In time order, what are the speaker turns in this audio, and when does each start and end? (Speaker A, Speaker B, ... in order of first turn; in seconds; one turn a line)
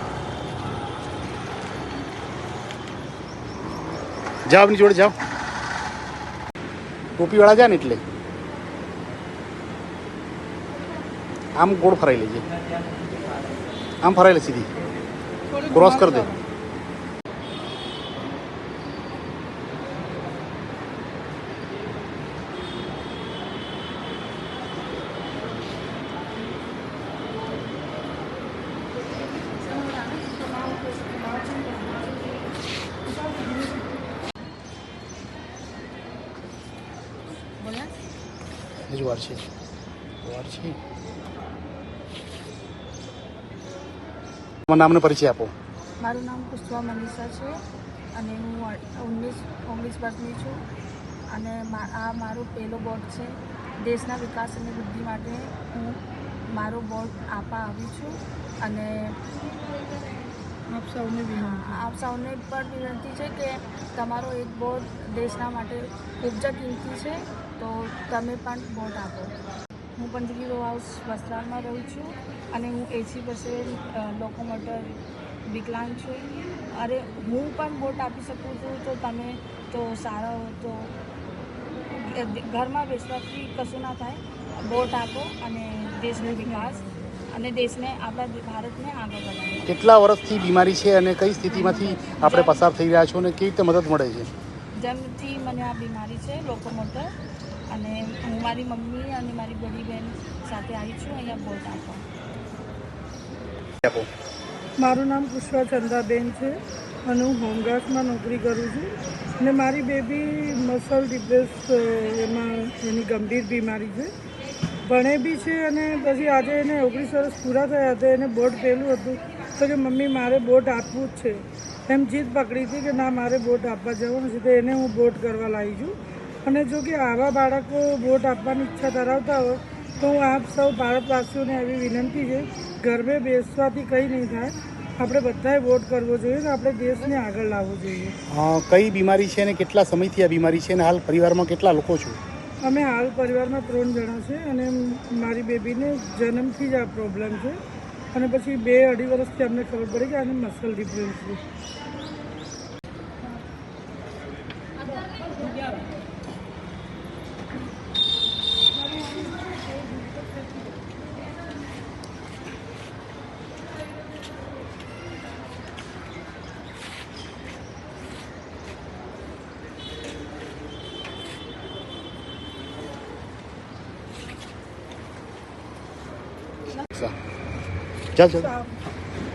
Speaker A: 4.5-5.2
Speaker A: 7.2-8.0
Speaker A: 11.6-12.4
Speaker A: 14.0-14.7
Speaker B: 15.5-16.4
Speaker A: 15.7-16.3
Speaker B: 29.8-32.2
Speaker B: 33.1-33.8
Speaker C: 37.6-37.9
Speaker A: 38.9-39.4
Speaker A: 40.2-40.8
Speaker A: 44.7-45.5
Speaker C: 46.0-47.6
Speaker C: 48.2-50.6
Speaker C: 51.3-56.0
Speaker C: 56.5-59.1
Speaker B: 60.7-61.8
Speaker C: 61.3-69.3
Speaker C: 70.0-74.9
Speaker C: 75.5-80.9
Speaker C: 81.9-89.7
Speaker B: 86.2-86.8
Speaker A: 89.7-94.3
Speaker B: 91.6-91.9
Speaker C: 92.0-92.7
Speaker C: 94.8-97.1
Speaker C: 97.7-102.0
Speaker B: 104.8-114.1
Speaker B: 114.8-138.2
Speaker A: 138.3-142.2
Speaker B: 142.6-147.6
Speaker B: 148.1-151.4
Speaker A: 176.9-177.1
Speaker A: 178.2-178.5
Speaker B: 178.4-178.7